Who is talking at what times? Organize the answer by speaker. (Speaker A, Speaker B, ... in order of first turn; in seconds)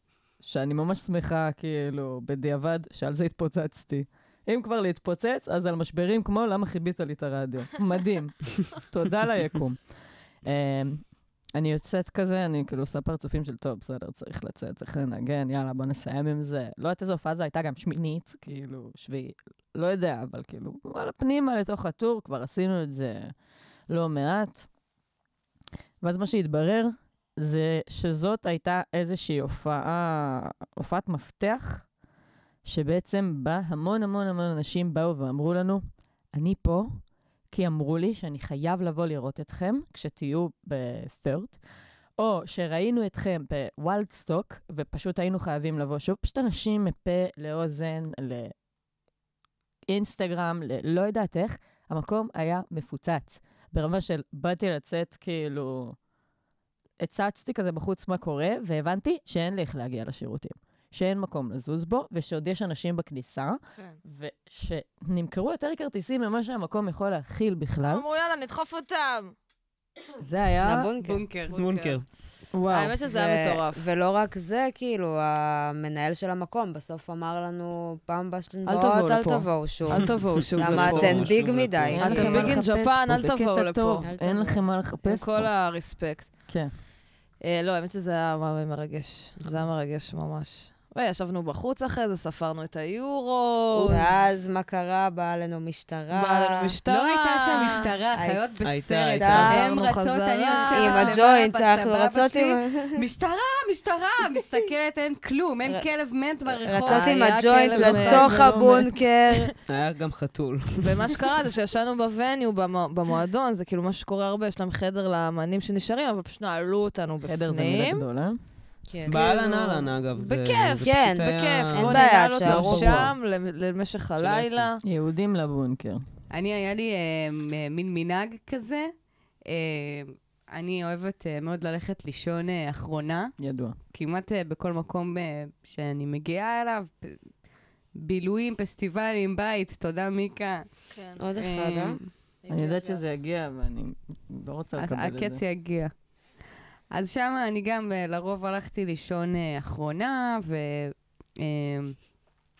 Speaker A: 0.4-23.3, 23.9-24.7, 26.0-31.9, 32.6-41.6, 42.2-48.5, 49.9-56.0, 57.0-68.1, 70.2-70.9, 72.5-73.0, 82.0-85.5, 86.5-86.8, 117.2-118.4, 124.8-126.0, 133.4-133.8, 142.5-145.4
Speaker B: 63.8-64.0, 67.8-69.3, 71.5-72.2, 72.7-73.8, 78.7-81.3, 82.0-84.1, 85.0-86.5, 87.4-94.1, 96.1-97.8, 99.5-101.2, 106.9-109.5, 110.8-118.0, 119.0-124.8, 140.9-141.3, 142.4-143.0
Speaker C: 70.6-71.3, 73.1-82.7, 84.0-84.7, 93.9-96.7, 98.2-98.4, 99.2-99.8, 100.7-103.0, 106.5-109.5, 118.9-119.2, 120.8-123.1, 141.2-142.0
Speaker D: 71.0-71.6, 96.8-108.3, 126.3-128.9, 129.5-133.4, 133.9-137.2, 138.0-140.7, 141.4-142.1, 144.8-146.2, 146.9-152.1
Speaker E: 71.5-72.1, 80.5-82.5, 93.7-94.2, 98.6-99.7, 108.3-108.6, 109.7-110.9, 119.0-123.2, 124.2-124.7